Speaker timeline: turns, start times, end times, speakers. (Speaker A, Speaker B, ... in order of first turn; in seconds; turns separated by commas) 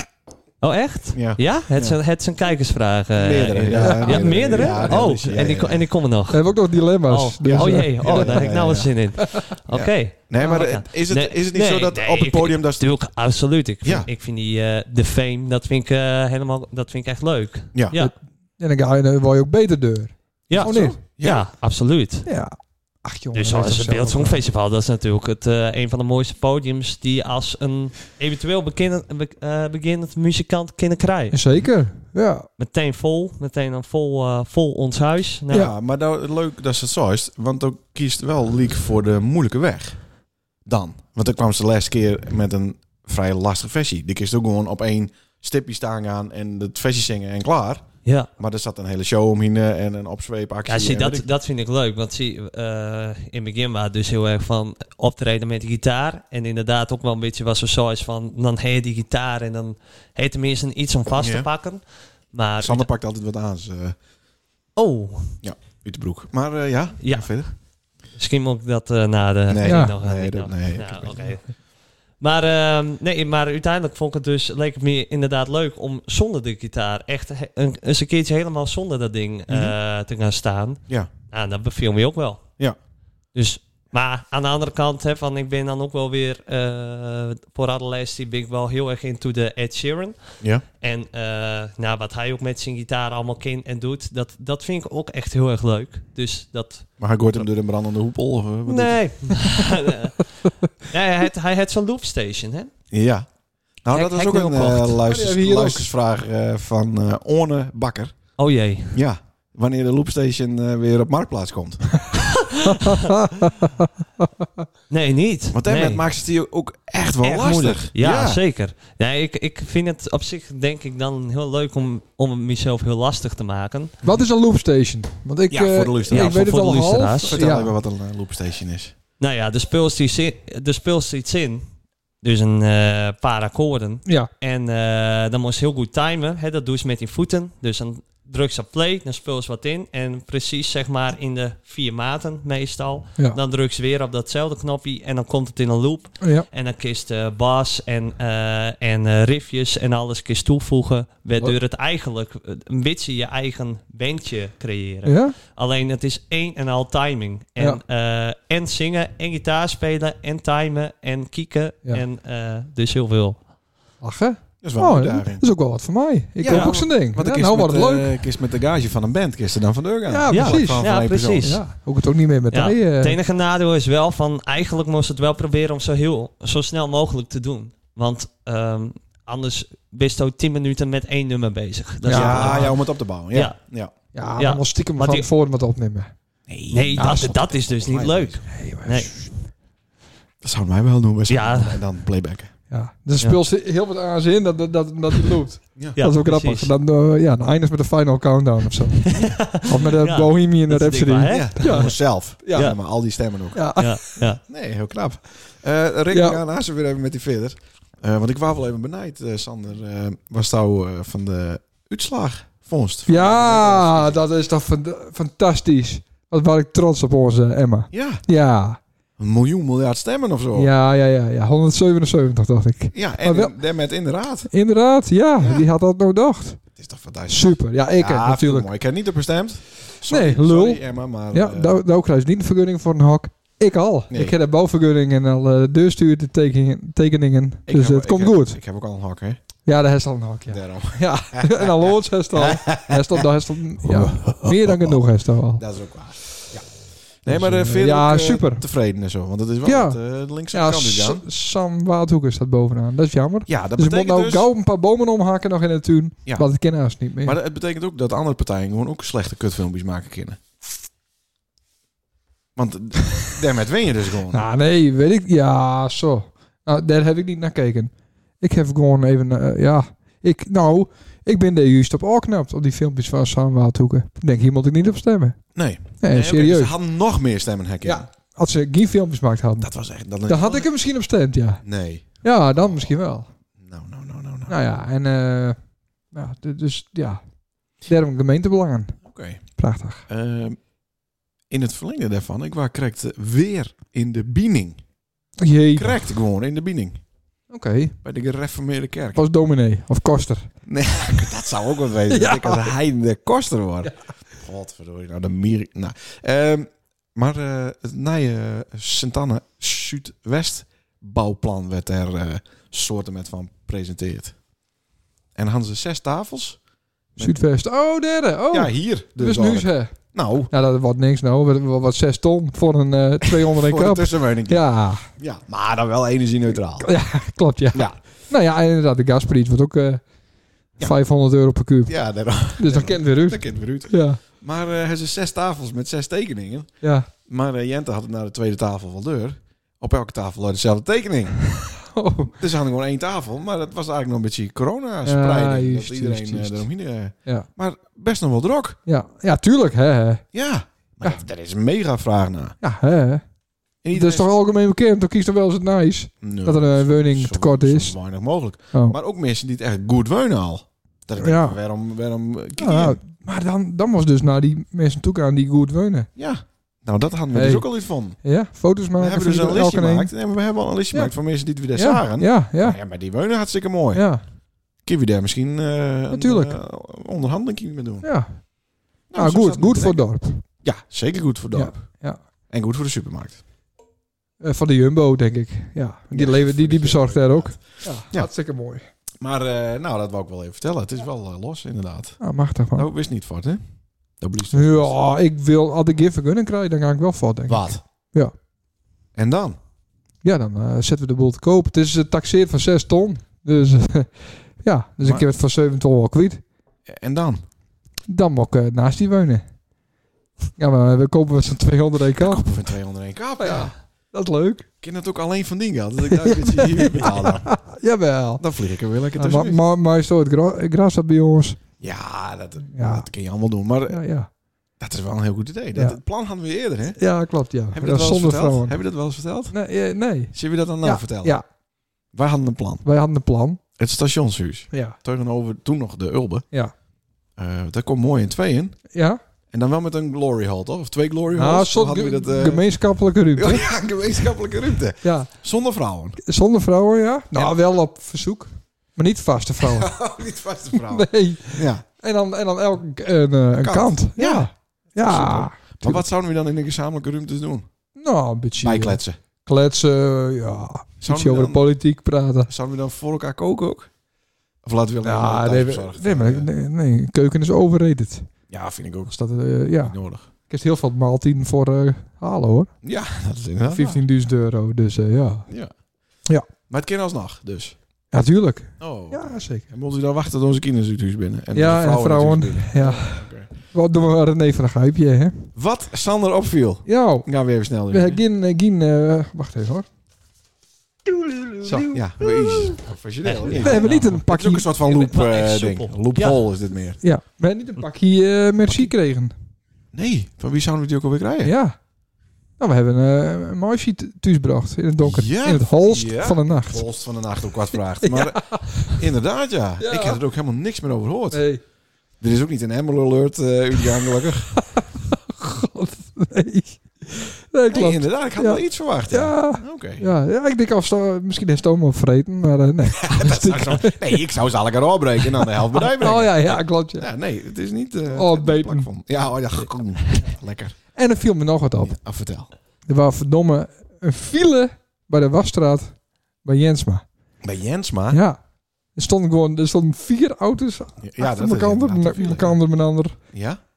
Speaker A: 0.6-18.1, Speaker B: 1.1-2.0, Speaker B: 3.1-5.9, Speaker C: 3.8-5.0, Speaker C: 6.3-8.4, Speaker B: 7.4-9.1, Speaker B: 9.7-13.0, Speaker B: 13.8-14.1, Speaker C: 17.9-21.0, Speaker A: 20.5-22.2, Speaker B: 20.5-21.4, Speaker C: 22.2-24.4, Speaker A: 23.3-31.4, Speaker C: 31.3-32.5, Speaker A: 32.6-35.6, Speaker B: 35.5-40.0, Speaker B: 40.6-51.2, Speaker A: 50.7-62.9, Speaker B: 61.1-61.5, Speaker B: 62.6-64.0, Speaker A: 64.8-65.4, Speaker B: 65.4-67.5, Speaker A: 67.0-67.4, Speaker A: 68.2-71.5, Speaker B: 69.5-71.4, Speaker C: 69.6-69.9, Speaker A: 72.2-82.5, Speaker B: 79.5-79.8, Speaker A: 83.3-97.4, Speaker B: 97.0-99.1, Speaker A: 98.7-102.7, Speaker B: 102.9-103.3, Speaker B: 103.8-108.3, Speaker A: 103.9-105.0, Speaker C: 105.1-105.9, Speaker A: 108.4-109.0, Speaker B: 108.9-112.1, Speaker A: 112.2-113.0, Speaker C: 112.9-114.6, Speaker A: 114.9-116.0, Speaker B: 115.5-118.4, Speaker A: 117.2-124.0, Speaker C: 124.0-127.7, Speaker B: 125.5-126.5, Speaker A: 126.1-127.4, Speaker B: 127.2-128.9, Speaker A: 129.2-131.6, Speaker A: 132.2-163.4, Speaker C: 146.2-146.4, Speaker C: 155.0-155.3, Speaker C: 164.0-168.2, Speaker B: 164.6-165.4, Speaker B: 166.4-171.6, Speaker A: 166.5-166.8, Speaker C: 170.1-170.9, Speaker A: 170.3-171.7, Speaker C: 171.4-173.2, Speaker A: 172.5-183.6, Speaker C: 182.0-182.7, Speaker B: 182.1-183.9, Speaker C: 184.1-186.1, Speaker A: 184.4-185.3, Speaker B: 186.5-188.4, Speaker A: 186.7-189.2, Speaker C: 186.9-187.3, Speaker C: 188.5-189.3, Speaker B: 190.4-192.5, Speaker A: 191.3-191.8, Speaker C: 192.7-202.7, Speaker A: 195.9-196.7, Speaker A: 199.1-201.9, Speaker B: 201.3-203.8, Speaker C: 203.5-204.2, Speaker A: 203.8-204.4, Speaker B: 204.4-214.2, Speaker C: 206.1-206.4, Speaker C: 213.1-218.8, Speaker B: 217.9-218.2, Speaker B: 219.2-220.7, Speaker C: 220.5-223.6, Speaker B: 222.9-224.5, Speaker C: 224.5-226.6, Speaker B: 225.4-225.7, Speaker B: 226.8-231.8, Speaker C: 227.3-228.7, Speaker C: 230.1-238.6, Speaker B: 234.1-234.3, Speaker B: 237.7-239.4, Speaker C: 239.6-245.6, Speaker B: 240.5-243.2, Speaker B: 243.8-245.0, Speaker B: 245.6-251.2, Speaker C: 247.2-248.6, Speaker C: 249.6-250.0, Speaker C: 250.5-257.4, Speaker B: 253.5-254.5, Speaker B: 257.2-260.4, Speaker B: 262.6-264.4, Speaker C: 264.3-275.4, Speaker B: 275.5-278.1, Speaker C: 276.0-276.7, Speaker C: 277.8-279.7, Speaker B: 279.6-280.7, Speaker C: 280.2-281.6, Speaker B: 281.6-282.9, Speaker C: 282.2-283.3, Speaker B: 283.6-284.6, Speaker C: 284.5-285.6, Speaker C: 286.1-287.2, Speaker C: 287.8-289.0, Speaker B: 289.0-289.4, Speaker C: 289.6-290.1, Speaker B: 290.1-290.6, Speaker B: 291.5-294.8, Speaker C: 295.4-296.0, Speaker B: 295.8-297.0, Speaker C: 297.5-297.9, Speaker B: 298.0-299.2, Speaker C: 299.1-300.5, Speaker B: 300.6-314.3, Speaker C: 302.1-302.7, Speaker B: 315.3-316.6, Speaker B: 317.1-317.4, Speaker C: 317.2-319.9, Speaker B: 318.5-320.5, Speaker C: 320.5-325.1, Speaker B: 323.2-326.9, Speaker C: 326.8-330.0, Speaker B: 327.7-328.0, Speaker C: 330.8-331.9, Speaker B: 331.9-336.7, Speaker C: 332.5-334.2, Speaker C: 336.8-337.1, Speaker B: 337.2-341.5, Speaker C: 341.8-342.4, Speaker B: 342.4-348.8, Speaker C: 345.0-346.7, Speaker C: 348.9-350.2, Speaker B: 350.3-352.6, Speaker C: 352.6-353.2, Speaker B: 353.8-354.3, Speaker C: 353.9-358.0, Speaker B: 356.2-363.0, Speaker C: 361.2-361.6, Speaker C: 362.6-366.1, Speaker B: 366.1-368.2, Speaker C: 367.3-370.1, Speaker B: 369.0-374.1, Speaker C: 370.9-372.8, Speaker C: 373.9-374.2, Speaker B: 374.8-378.1, Speaker C: 376.1-376.6, Speaker C: 378.0-378.5, Speaker B: 379.1-383.4, Speaker C: 379.1-380.4, Speaker C: 381.5-382.2, Speaker C: 384.4-388.8, Speaker B: 386.1-388.3, Speaker B: 389.2-393.6, Speaker C: 392.2-392.9, Speaker B: 394.2-394.9, Speaker C: 394.5-398.3, Speaker B: 397.5-397.8, Speaker B: 399.1-399.6, Speaker C: 400.2-406.4, Speaker B: 405.0-405.3, Speaker B: 406.9-407.4, Speaker C: 408.1-409.4, Speaker C: 410.6-412.4, Speaker B: 412.2-413.7, Speaker C: 413.4-414.6, Speaker B: 414.8-417.6, Speaker C: 416.1-418.4, Speaker B: 418.4-419.6, Speaker C: 419.2-421.6, Speaker B: 421.8-424.0, Speaker C: 422.7-423.1, Speaker C: 423.9-424.3, Speaker B: 424.8-427.0, Speaker C: 427.0-428.8, Speaker B: 427.7-429.6, Speaker C: 429.5-431.4, Speaker B: 430.3-431.4, Speaker B: 432.1-432.8, Speaker C: 432.8-433.6, Speaker B: 433.8-436.4, Speaker C: 434.7-435.0, Speaker B: 437.4-438.8, Speaker C: 438.9-439.2, Speaker B: 439.5-446.2, Speaker C: 441.3-443.7, Speaker C: 445.0-445.3, Speaker C: 446.2-450.0, Speaker B: 449.6-451.8, Speaker C: 450.7-456.0, Speaker B: 453.6-457.6, Speaker C: 457.9-462.5, Speaker B: 458.6-459.2, Speaker B: 461.0-461.8, Speaker B: 462.5-463.9, Speaker B: 464.6-466.5, Speaker C: 465.0-468.3, Speaker B: 468.5-469.2, Speaker C: 469.1-472.7, Speaker B: 469.8-470.3, Speaker B: 472.8-474.0, Speaker C: 473.6-475.5, Speaker B: 475.5-475.7, Speaker B: 476.7-477.8, Speaker C: 478.1-479.7, Speaker B: 478.8-483.5, Speaker C: 481.5-485.5, Speaker B: 485.5-488.2, Speaker C: 486.9-487.3, Speaker C: 487.9-489.9, Speaker A: 491.5-492.7, Speaker C: 491.6-491.9, Speaker B: 491.9-497.0, Speaker A: 493.2-494.2, Speaker C: 493.5-494.7, Speaker A: 494.9-496.4, Speaker C: 497.0-499.3, Speaker B: 498.7-498.9, Speaker B: 499.9-501.5, Speaker C: 501.4-501.8, Speaker C: 502.6-506.8, Speaker B: 505.0-511.6, Speaker C: 508.0-509.0, Speaker C: 509.8-510.2, Speaker C: 511.3-511.6, Speaker B: 512.2-514.6, Speaker C: 514.8-524.2, Speaker B: 517.7-520.1, Speaker B: 523.0-530.8, Speaker C: 525.7-527.1, Speaker C: 528.1-528.9, Speaker C: 530.9-532.0, Speaker B: 531.8-532.5, Speaker C: 532.9-537.0, Speaker B: 537.4-538.2, Speaker C: 538.1-543.3, Speaker B: 541.0-542.6, Speaker B: 543.3-543.6